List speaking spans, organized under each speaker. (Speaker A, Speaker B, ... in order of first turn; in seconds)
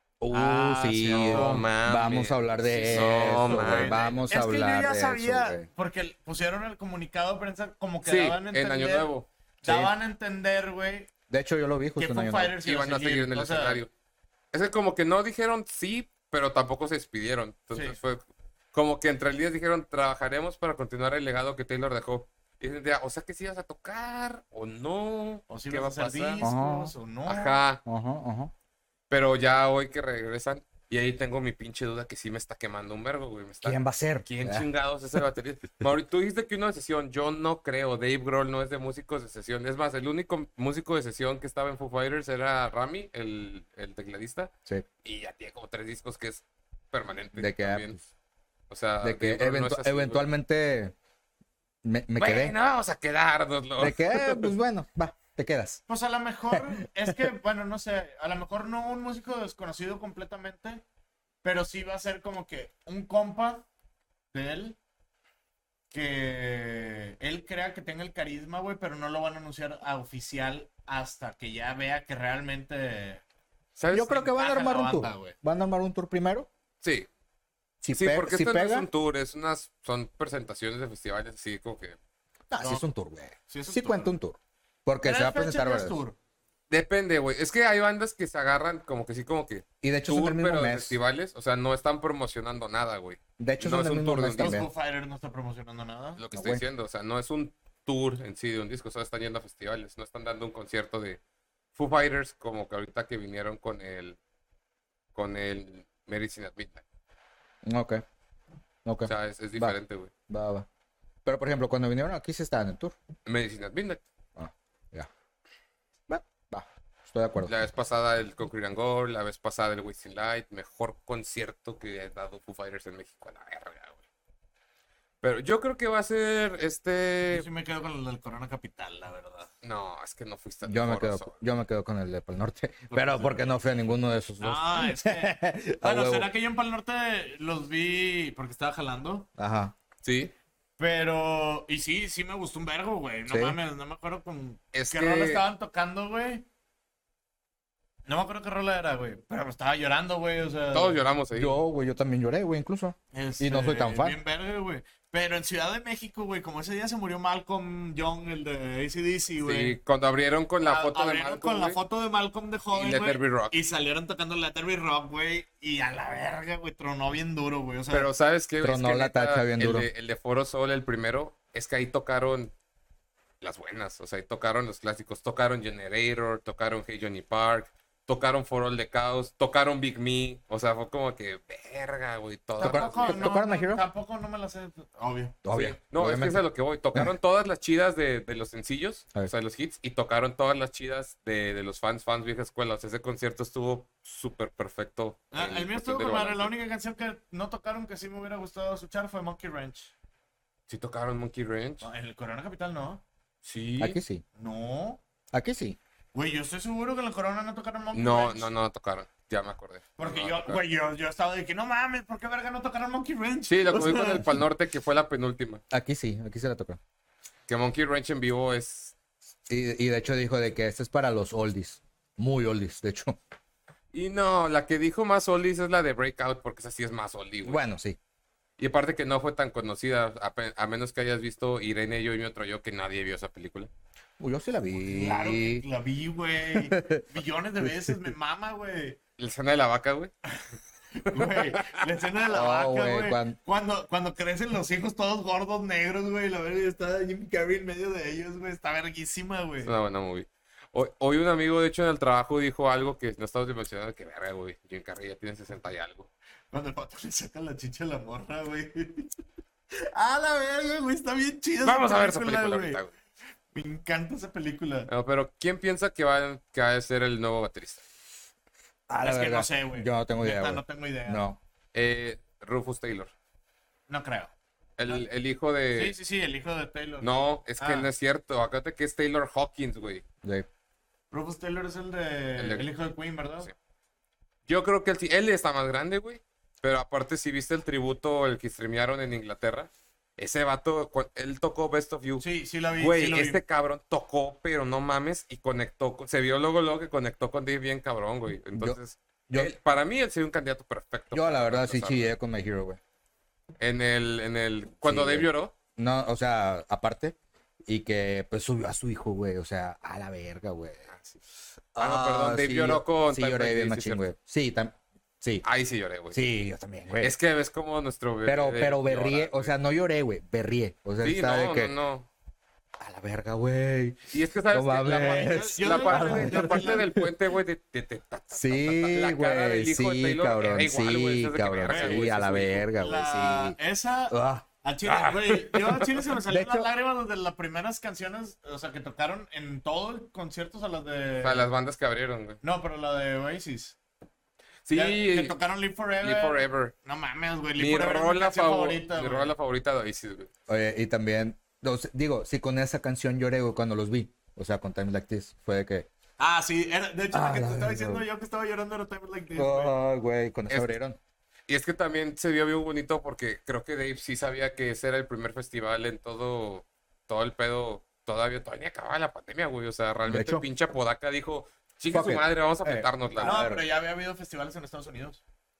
Speaker A: 0.2-5.7, 9.6-9.9, 11.3-12.6, 26.4-26.9, 27.9-28.5, 33.6-34.6, 47.4-48.0, 49.0-50.9, 51.8-52.5, 53.8-55.8, 56.5-57.3, 73.9-76.5, 77.8-78.9, 82.5-86.0, 89.8-91.0, 93.4-94.7, 96.3-96.6, 107.6-108.0, 108.8-109.8, 110.3-110.7, 111.2-113.0, 114.4-115.1, 116.1-117.5, 130.6-136.3, 139.4-139.7, 143.3-143.6, 151.3-154.2, 168.6-169.9, 182.6-183.8, 185.4-186.4, 203.8-204.2, 205.3-205.8, 215.7-216.8, 219.5-223.2, 227.4-228.0, 234.2-235.6, 236.5-237.0, 242.3-243.4, 268.9-271.4, 301.1-302.8, 304.8-307.1, 307.7-310.9, 311.8-315.4, 316.1-317.1, 318.2-321.7, 322.8-327.1, 328.3-333.6, 334.1-334.5, 336.3-336.7, 350.5-355.9, 357.1-358.0, 359.4-361.0, 370.1-370.4, 371.9-373.6
Speaker B: 0.3-1.7, 2.7-9.1, 9.6-11.1, 12.0-13.8, 17.7-18.0, 25.5-27.6, 55.9-60.8, 61.4-63.6, 64.3-64.8, 65.9-73.2, 74.1-75.3, 83.5-84.1, 85.0-86.2, 94.4-96.2, 127.3-129.5, 132.9-133.6, 134.4-139.3, 140.8-146.4, 148.1-151.0, 153.1-159.8, 160.6-168.1, 182.6-185.4, 195.3-199.9, 201.8-203.0, 204.4-205.0, 206.1-208.5, 210.0-214.3, 234.8-239.0, 240.9-249.7, 256.5-259.1, 259.7-262.8, 263.5-264.9, 269.0-271.2, 273.9-274.3, 275.7-277.9, 281.1-283.5, 292.2-293.4, 324.8-326.9, 331.7-332.0, 332.8-341.5, 342.4-343.8, 344.7-349.3, 356.2-359.7, 373.2-375.2
Speaker C: 1.1-4.1, 8.0-9.3, 12.6-13.9, 14.5-18.2, 18.7-26.4, 27.3-27.8, 29.1-44.5, 45.0-48.0, 48.7-50.2, 52.2-54.5, 73.8-74.2, 76.8-77.1, 77.9-82.0, 86.7-94.6, 96.2-101.2, 101.8-104.2, 105.1-106.8, 109.1-110.1, 113.2-114.0, 117.5-124.0, 125.2-127.5, 129.6-131.4, 140.0-140.3, 144.7-145.4, 150.7-151.6, 159.4-161.8, 162.7-163.5, 167.9-172.5, 173.4-183.3, 185.5-196.5, 200.7-201.9, 203.4-204.0, 207.9-210.6, 213.5-215.6, 217.5-218.9, 223.9-227.6, 228.6-233.7, 239.2-240.1, 241.1-241.9, 249.6-256.1, 261.6-262.9, 264.9-267.8, 271.7-273.1, 274.8-276.0, 277.0-280.0, 282.4-282.7, 284.5-292.2, 292.8-302.1, 303.6-305.5, 310.9-311.2, 311.8-314.0, 315.4-316.2, 317.0-319.5, 321.0-322.1, 324.1-332.7, 334.9-336.0, 341.2-342.4, 344.6-345.4, 346.0-346.7, 347.6-350.3, 360.5-360.7, 361.5-373.5